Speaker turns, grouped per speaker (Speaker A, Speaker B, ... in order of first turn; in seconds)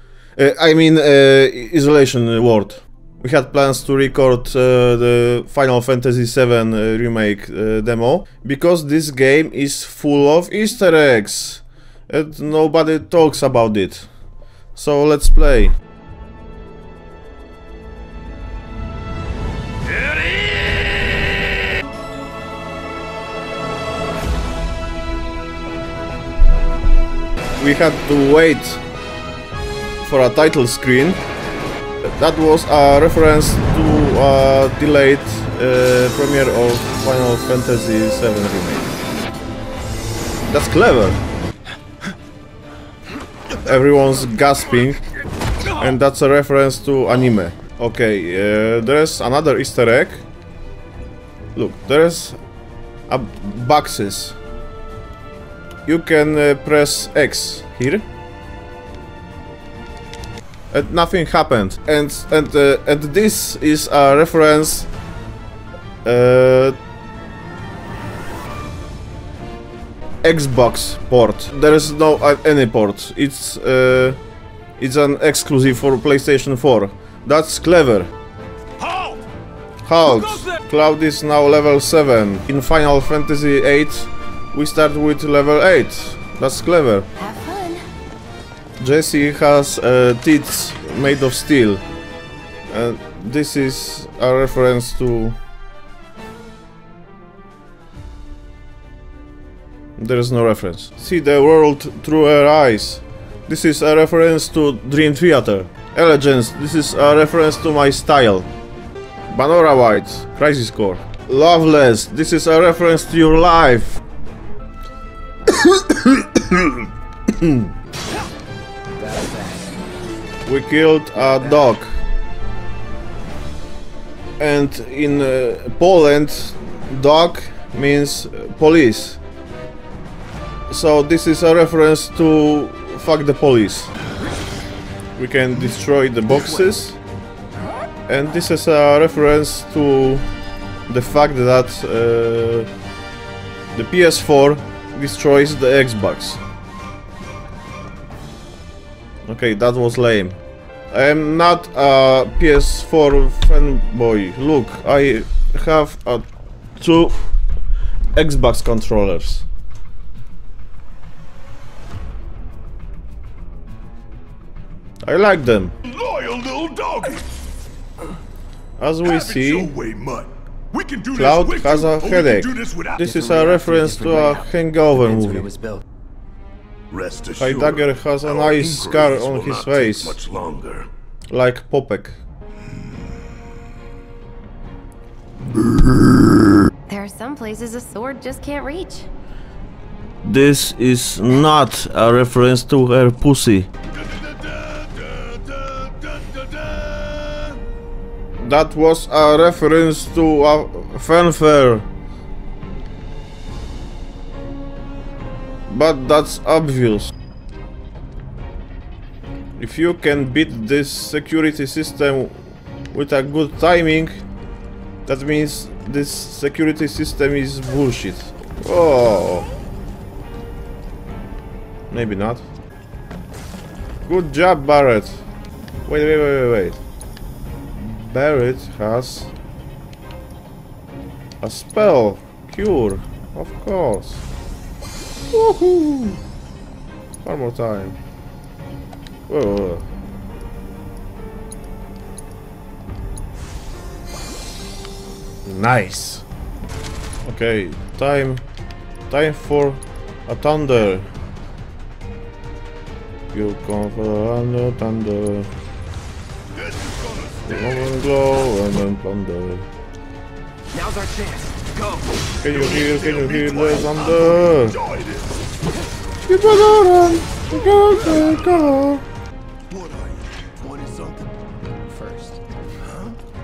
Speaker A: 0.4-14.1, 14.8-15.7, 27.6-28.8, 30.0-31.2, 32.0-38.9, 40.5-41.2, 43.6-45.0, 45.7-50.2, 51.5-52.4, 53.1-54.4, 55.9-58.1, 60.7-64.9, 66.0-66.8, 70.2-74.2, 74.8-78.1, 79.8-87.1, 88.8-91.8, 92.7-95.4, 100.0-108.5, 109.3-114.0, 115.5-117.7, 120.4-121.9, 124.4-129.2, 130.7-133.9, 135.2-137.0, 138.1-140.2, 140.9-142.7, 143.7-146.4, 149.2-150.4, 150.9-157.2, 158.2-159.4, 165.0-165.7, 168.8-169.7, 171.1-175.5, 177.4-180.2, 181.3-182.2, 190.2-193.7, 198.4-201.9, 205.7-207.1, 209.6-212.4, 212.9-214.2, 215.1-219.5, 221.9-222.4, 224.1-225.2, 225.8-226.8, 227.7-229.3, 231.4-234.2, 235.3-236.2, 237.2-238.0, 239.3-239.8, 245.4-246.2, 247.2-248.4, 249.1-251.1, 253.3-255.5, 257.4-259.7, 262.4-264.8, 266.3-269.1
Speaker B: 78.8-79.2, 165.8-167.2, 169.0-173.0, 176.9-180.9, 194.0-197.5, 256.5-257.9, 262.4-265.4, 268.0-268.6, 269.7-271.3, 272.8-273.2
Speaker C: 87.2-87.8, 186.9-189.1
Speaker D: 119.0-119.8, 121.4-121.7, 173.0-175.8, 260.7-262.3, 271.8-272.4